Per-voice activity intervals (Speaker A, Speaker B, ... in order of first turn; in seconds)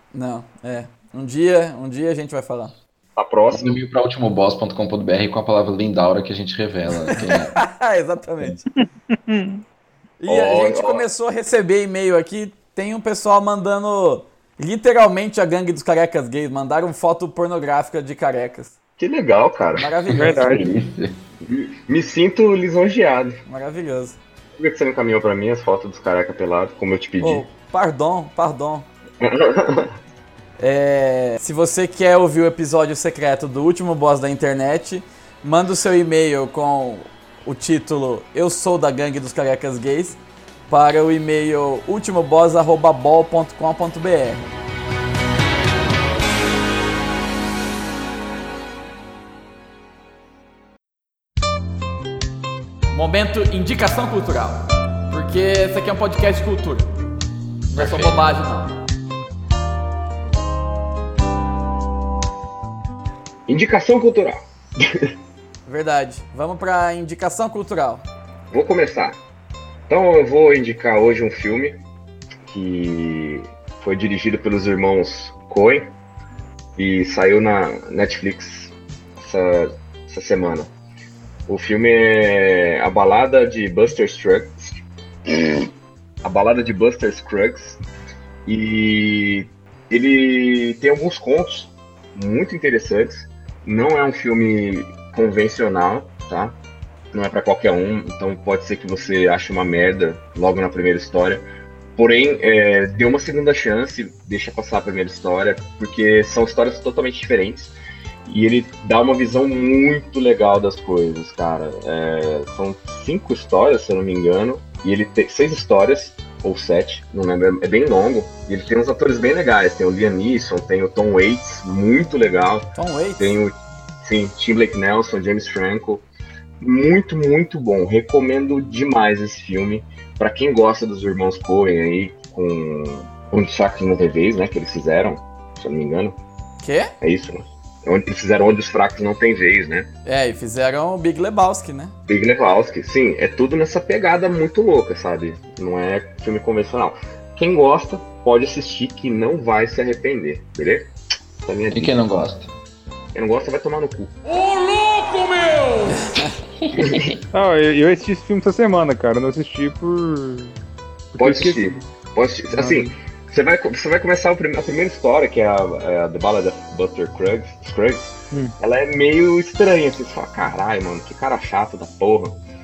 Speaker A: 0.1-2.7, 7.2-8.7, 10.2-18.8, 19.8-20.6, 23.5-24.2, 27.2-28.9, 30.6-44.5, 52.9-56.9, 57.7-58.7, 65.7-68.0, 122.8-123.3, 136.6-136.9, 140.1-141.9, 155.9-156.3
Speaker B: 3.2-3.8, 10.3-11.1, 19.0-19.9, 21.4-23.4, 24.6-27.4, 29.2-29.9, 63.5-65.1, 68.5-69.2, 69.9-71.8, 72.5-75.9, 76.8-80.7, 81.5-85.7, 86.2-87.8, 88.5-96.5, 97.1-101.5, 102.0-107.7, 108.3-126.0, 126.6-136.2, 137.0-139.9, 142.1-150.9, 151.4-152.0, 153.1-154.1, 156.8-157.1, 161.2-172.4
Speaker C: 3.5-7.7, 20.1-21.2, 57.8-58.1, 151.7-152.5, 156.6-157.2
Speaker D: 9.1-9.6, 20.2-20.7, 154.4-155.7, 157.3-160.6, 161.1-161.8, 162.5-162.9